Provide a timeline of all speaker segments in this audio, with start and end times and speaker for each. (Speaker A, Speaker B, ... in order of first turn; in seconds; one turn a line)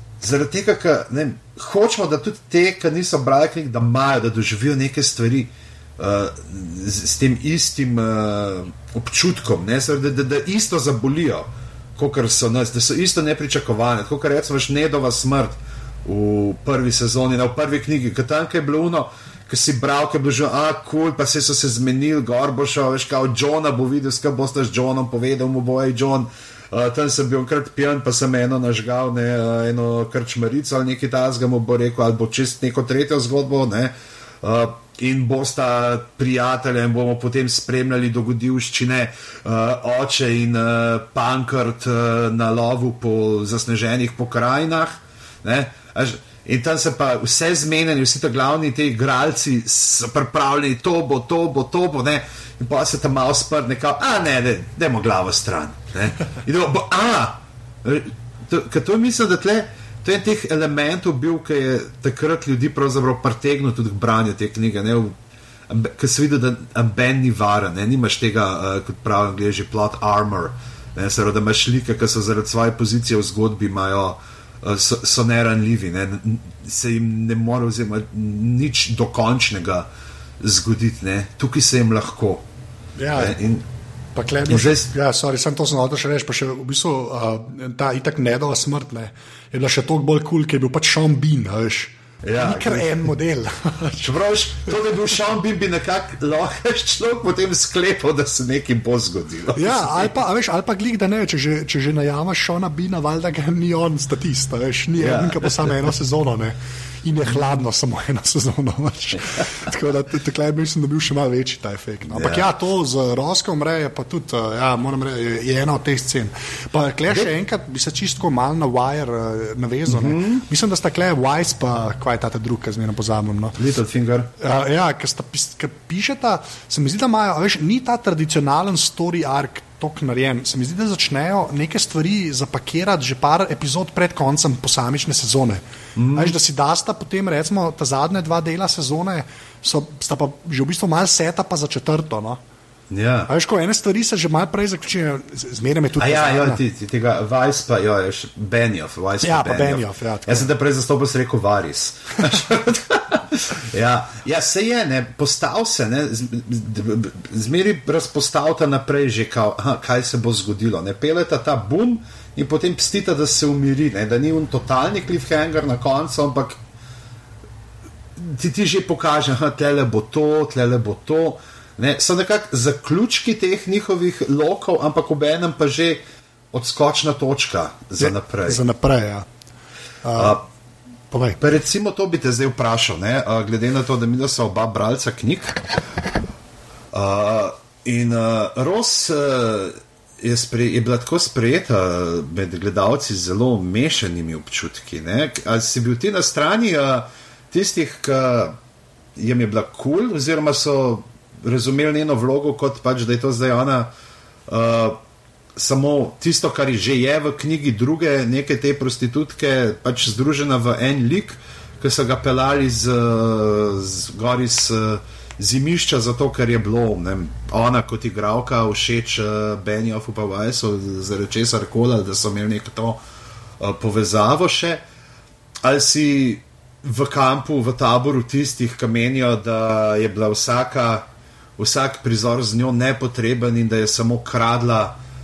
Speaker A: 0.2-65.1
Speaker A: 65.7-79.9
Speaker A: 80.4-82.4
Speaker B: 83.0-83.4
Speaker A: 83.2-83.6
Speaker B: 84.2-94.1
Speaker A: 84.5-84.9
Speaker A: 92.2-93.1
Speaker A: 94.0-100.1
Speaker B: 99.5-123.6
Speaker A: 105.0-105.7
Speaker A: 112.1-112.5
Speaker A: 119.9-120.4
Speaker A: 123.6-124.3
Speaker B: 124.4-142.4
Speaker A: 135.9-136.4
Speaker A: 142.9-143.3
Speaker B: 143.3-146.6
Speaker A: 146.0-166.6
Speaker B: 149.2-150.5
Speaker A: 168.2-176.0
Speaker A: 176.5-178.6
Speaker B: 178.0-179.2
Speaker B: 180.0-180.4
Speaker A: 180.1-180.4
Speaker B: 181.1-181.4
Speaker A: 181.4-185.6
Speaker A: 186.9-198.6
Speaker A: 199.2-203.9
Speaker A: 204.5-205.0
Speaker A: 205.6-223.0
Speaker A: 223.6-224.8
Speaker A: 225.6-231.1
Speaker A: 231.6-235.0